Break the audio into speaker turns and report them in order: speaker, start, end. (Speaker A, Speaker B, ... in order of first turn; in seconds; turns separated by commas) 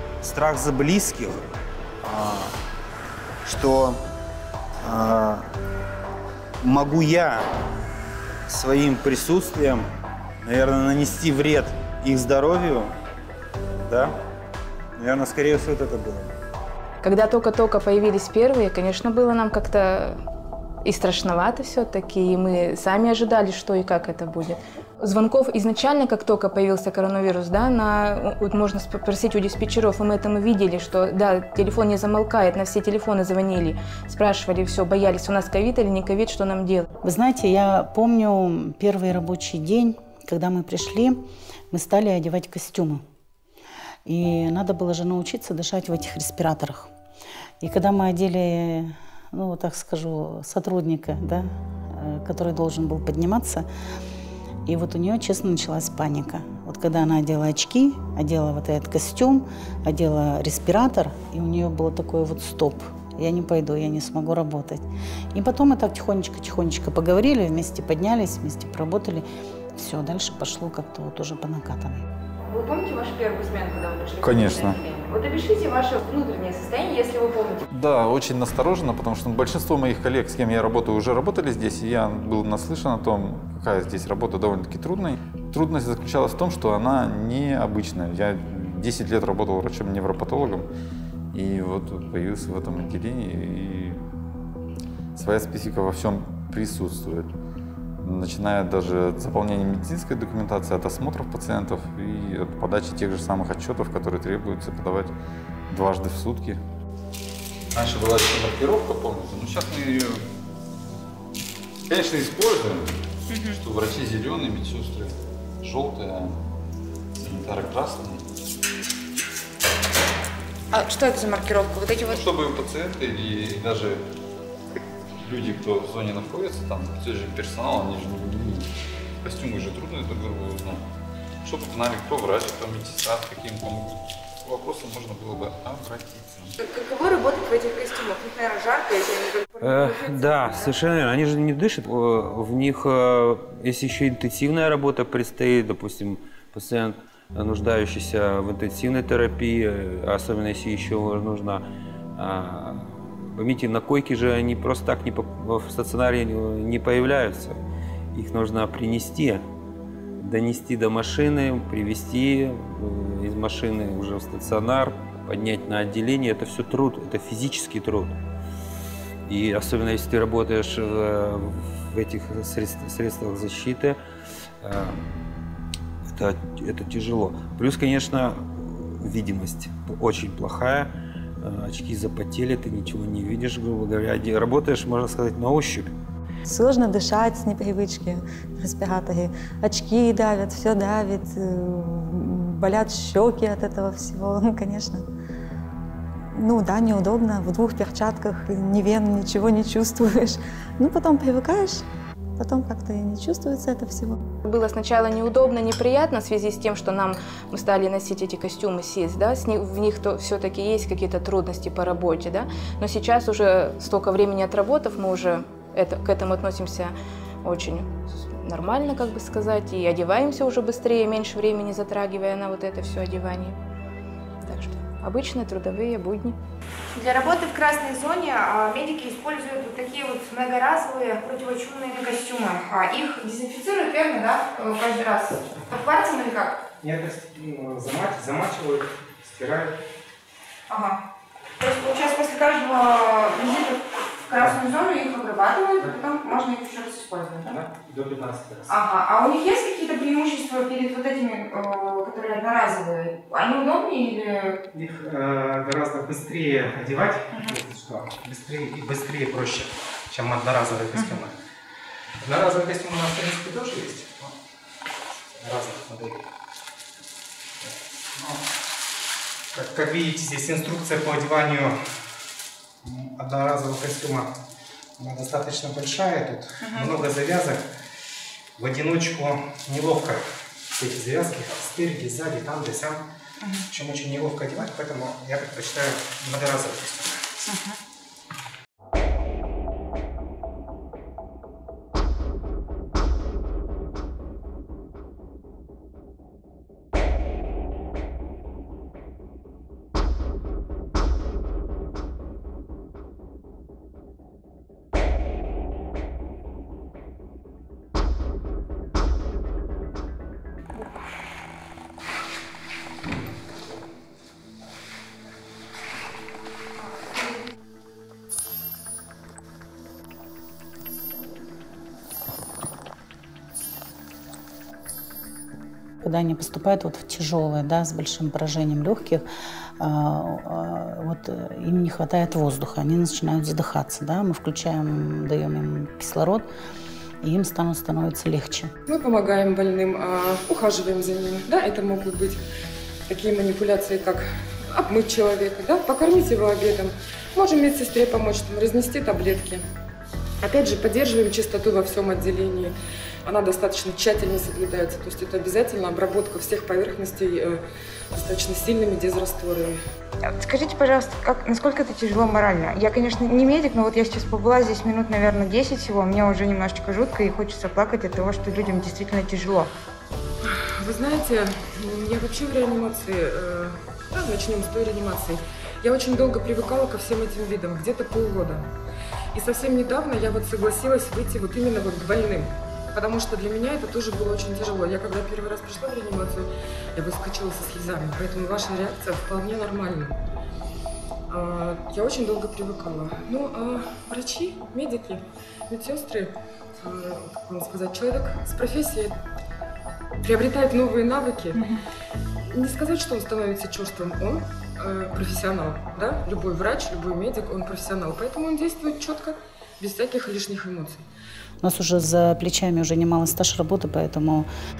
Speaker A: 0.2-1.5, Speaker A: 2.0-2.5, Speaker A: 3.5-4.0, Speaker A: 4.8-5.5, Speaker A: 6.6-7.5, Speaker A: 8.5-9.9, Speaker A: 10.4-12.9, Speaker A: 13.8-14.2, Speaker A: 15.0-16.3, Speaker B: 17.0-20.2, Speaker B: 20.9-36.9, Speaker C: 37.0-43.0, Speaker C: 44.1-46.9, Speaker C: 47.6-53.7, Speaker C: 54.7-72.0, Speaker D: 72.4-77.6, Speaker E: 74.2-74.8, Speaker E: 77.7-90.7, Speaker E: 91.3-94.0, Speaker E: 95.2-97.3, Speaker E: 98.0-105.1, Speaker E: 105.7-106.6, Speaker E: 107.7-110.2, Speaker E: 111.9-112.9, Speaker D: 113.3-113.6, Speaker E: 113.5-116.4, Speaker E: 117.2-118.2, Speaker D: 120.7-122.2, Speaker E: 122.1-124.0, Speaker E: 125.2-128.7, Speaker E: 129.2-130.8, Speaker E: 131.4-136.6, Speaker D: 136.6-140.8, Speaker A: 139.6-151.6, Speaker A: 152.2-157.6, Speaker A: 158.1-159.4, Speaker A: 160.2-168.2, Speaker A: 169.3-174.0, Speaker A: 174.6-175.0, Speaker A: 176.2-180.9, Speaker A: 181.4-185.9, Speaker F: 186.5-195.1, Speaker F: 196.3-201.9, Speaker F: 202.4-204.2, Speaker B: 204.4-223.6, Speaker B: 224.4-226.4, Speaker D: 226.9-236.6, Speaker G: 236.8-239.7, Speaker D: 240.7-241.0, Speaker D: 241.6-247.6, Speaker G: 247.4-248.8, Speaker D: 248.7-254.6, Speaker G: 254.7-261.4, Speaker G: 262.2-264.3, Speaker G: 265.4-266.2, Speaker G: 267.6-268.4, Speaker G: 269.5-271.8, Speaker G: 272.8-274.3, Speaker G: 275.0-277.6, Speaker D: 276.6-276.9, Speaker G: 278.6-283.0, Speaker D: 283.4-283.7, Speaker G: 283.7-287.2, Speaker D: 287.5-287.8, Speaker C: 326.0-329.2, Speaker C: 329.8-336.5, Speaker C: 337.2-338.7, Speaker H: 338.9-342.4, Speaker H: 343.1-349.6, Speaker H: 350.4-357.6, Speaker H: 358.1-359.8, Speaker D: 360.4-369.7, Speaker H: 370.4-378.7, Speaker H: 379.3-390.2, Speaker H: 391.3-399.1, Speaker H: 400.2-401.6, Speaker H: 402.5-411.0, Speaker C: 411.6-414.5